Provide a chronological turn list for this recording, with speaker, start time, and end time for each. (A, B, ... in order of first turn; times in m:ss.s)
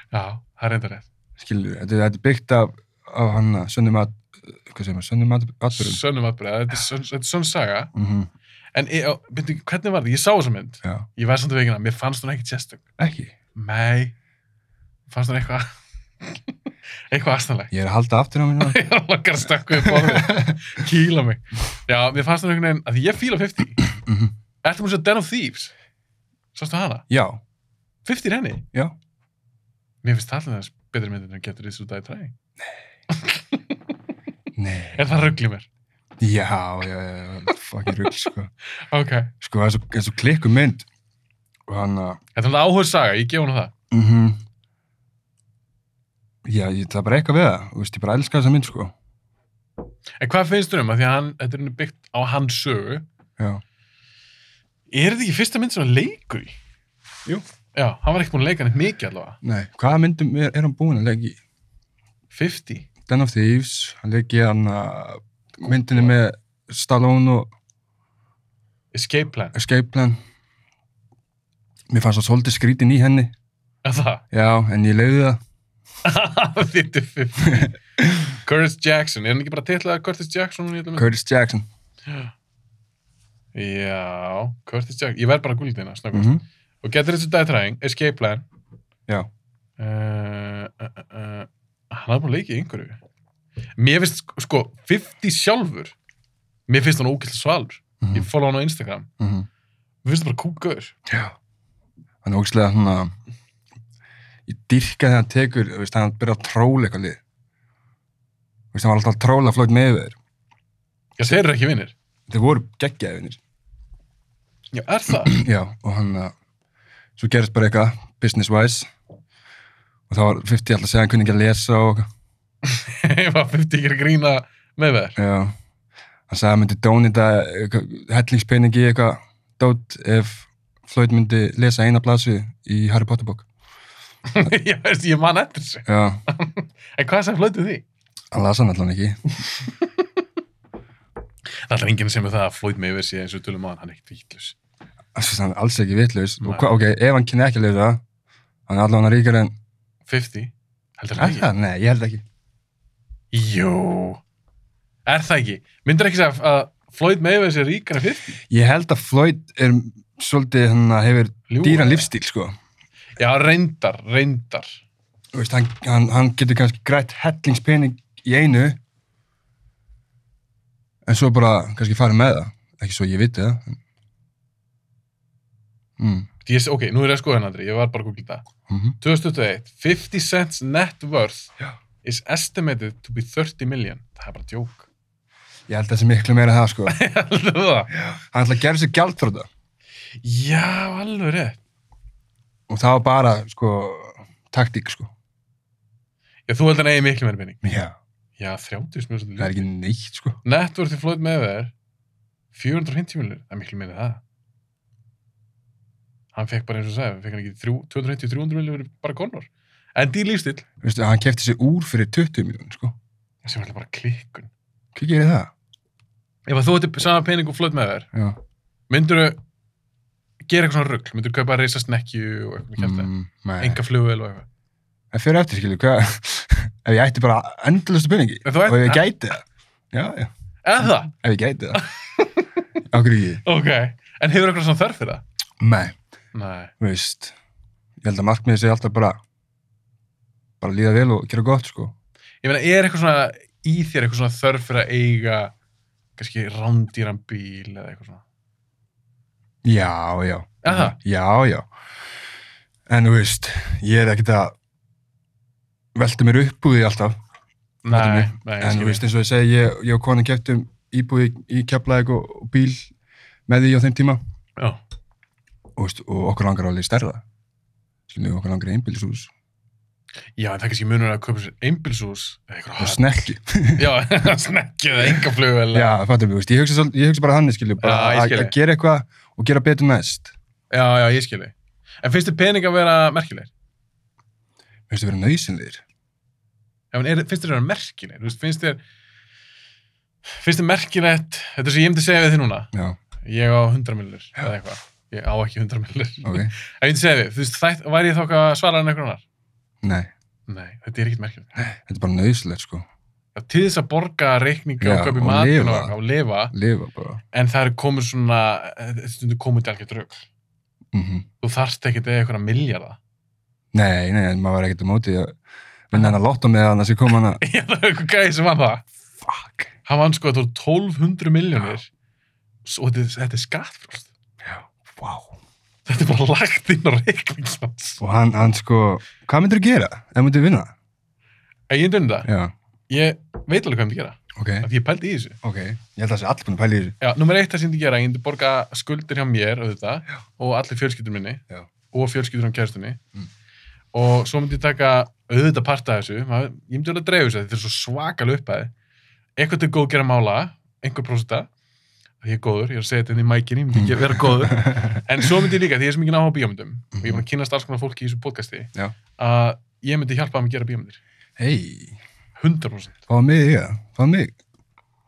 0:00.1-0:01.1 A
0:01.4-0:06.0 B
0:05.7-0:07.9 A
0:07.9-0:08.3 B
0:08.7-0:12.8 A
0:13.0-0:13.3 B
0:13.6-0:14.1 A
0:15.1-0:16.5 A
0:17.1-0:17.7 A
0:17.7-0:18.8 B
0:18.6-0:23.8 A
0:19.8-0:20.6 B
0:23.9-0:24.3 B
0:24.6-0:25.7 A
0:26.6-0:27.0 A
0:27.1-0:27.4 B
0:28.0-0:28.7 A
0:30.0-0:32.3 A
0:33.1-0:33.8 A
0:34.6-0:35.1 B
0:34.9-0:35.7 A
0:36.2-0:38.5 B
0:38.9-0:39.3 A
0:39.4-0:40.9 B
0:41.7-0:42.2 B
0:42.4-0:43.7 A
0:43.9-0:44.4 B
0:46.4-0:48.9 B
0:50.2-0:53.0 A
0:54.9-0:56.6 A
0:57.7-0:59.4 A
0:59.4-1:01.4 B
1:02.3-1:02.9 A
1:03.1-1:07.5 B
1:08.9-1:09.6 A
1:09.5-1:10.2 B
1:11.9-1:13.3 B
1:13.8-1:14.2 A
1:14.3-1:15.4 B
1:16.0-1:17.7 A
1:17.5-1:18.3 B
1:18.4-1:21.1 A
1:21.0-1:21.7 B
1:22.1-1:22.3 A
1:23.6-1:28.4 A
1:26.1-1:26.4 B
1:29.8-1:33.0 A
1:33.8-1:36.0 A
1:36.7-1:39.1 A
1:38.0-1:38.3 B
1:39.2-1:39.5 B
1:40.0-1:41.0 A
1:41.1-1:41.3 B
1:42.2-1:43.1 B
1:44.5-1:47.2 B
1:48.7-1:50.2 B
1:51.2-1:51.9 A
1:52.3-1:53.4 B
1:54.7-1:55.4 A
1:55.2-1:56.3 B
1:57.2-1:58.9 B
2:00.1-2:02.1 B
2:02.6-2:05.2 A
2:05.2-2:05.6 B
2:06.3-2:13.5 B
2:14.3-2:17.8 A
2:15.9-2:16.2 B
2:18.3-2:19.2 B
2:21.5-2:24.6 A
2:25.2-2:28.0 B
2:26.4-2:26.7 A
2:28.7-2:29.6 B
2:30.1-2:31.5 A
2:31.2-2:32.2 B
2:33.3-2:34.2 A
2:35.1-2:38.4 A
2:38.5-2:42.5 B
2:41.5-2:42.1 A
2:43.2-2:44.8 A
2:45.3-2:48.8 B
2:51.0-2:53.8 B
2:56.0-2:56.3 B
2:56.4-2:58.4 A
2:58.7-2:59.0 B
2:59.0-3:01.5 A
3:02.0-3:04.9 A
3:05.7-3:07.0 B
3:06.9-3:07.9 A
3:07.9-3:09.5 B
3:10.2-3:11.6 A
3:12.7-3:15.1 B
3:16.5-3:17.6 A
3:17.6-3:18.0 B
3:18.4-3:19.6 A
3:19.4-3:20.4 B
3:20.4-3:21.7 A
3:22.5-3:24.2 A
3:26.3-3:30.6 A
3:30.8-3:33.0 B
3:33.4-3:34.5 A
3:35.0-3:35.5 B
3:36.5-3:38.1 A
3:38.9-3:39.4 A
3:40.4-3:44.5 A
3:42.8-3:43.8 B
3:45.1-3:51.8 B
3:48.4-3:49.1 A
3:50.6-3:51.1 A
3:51.8-3:52.5 A
3:52.9-3:53.4 B
3:53.4-3:55.2 A
3:55.6-3:56.0 B
3:56.3-3:56.7 A
3:56.8-3:57.4 B
3:58.0-3:59.2 B
4:00.6-4:01.9 B
4:02.4-4:05.5 A
4:06.2-4:08.2 A
4:09.6-4:11.7 B
4:10.6-4:11.0 A
4:12.9-4:14.5 B
4:16.0-4:17.2 B
4:17.8-4:19.0 A
4:17.9-4:22.9 B
4:23.5-4:24.2 B
4:25.8-4:27.2 B
4:28.1-4:29.3 B
4:30.4-4:33.1 A
4:32.8-4:33.9 B
4:33.8-4:36.0 A
4:35.7-4:40.3 B
4:37.8-4:38.6 A
4:40.7-4:43.5 A
4:44.9-4:45.8 B
4:46.9-4:48.8 A
4:50.3-4:52.7 A
4:52.7-4:53.0 B
4:53.2-4:59.2 A
4:56.2-4:56.5 B
4:59.8-5:00.1 B
5:00.5-5:01.6 A
5:01.6-5:02.9 B
5:03.4-5:06.5 A
5:04.8-5:06.0 B
5:06.5-5:07.2 B
5:07.3-5:10.2 A
5:10.9-5:11.3 B
5:11.4-5:13.0 A
5:13.7-5:15.4 B
5:15.9-5:17.4 B
5:17.4-5:18.9 A
5:19.2-5:19.7 B
5:19.9-5:21.9 A
5:22.6-5:24.1 A
5:24.4-5:25.4 B
5:25.9-5:28.0 A
5:28.0-5:30.7 B
5:31.7-5:32.3 A
5:32.2-5:32.5 B
5:32.9-5:35.4 A
5:34.4-5:34.7 B
5:35.4-5:37.0 B
5:37.0-5:43.0 A
5:43.9-5:48.7 A
5:49.4-5:51.5 A
5:52.2-6:01.0 A
5:53.7-5:55.3 B
5:57.0-5:57.2 B
6:01.4-6:02.0 B
6:02.4-6:03.0 A
6:03.1-6:04.4 B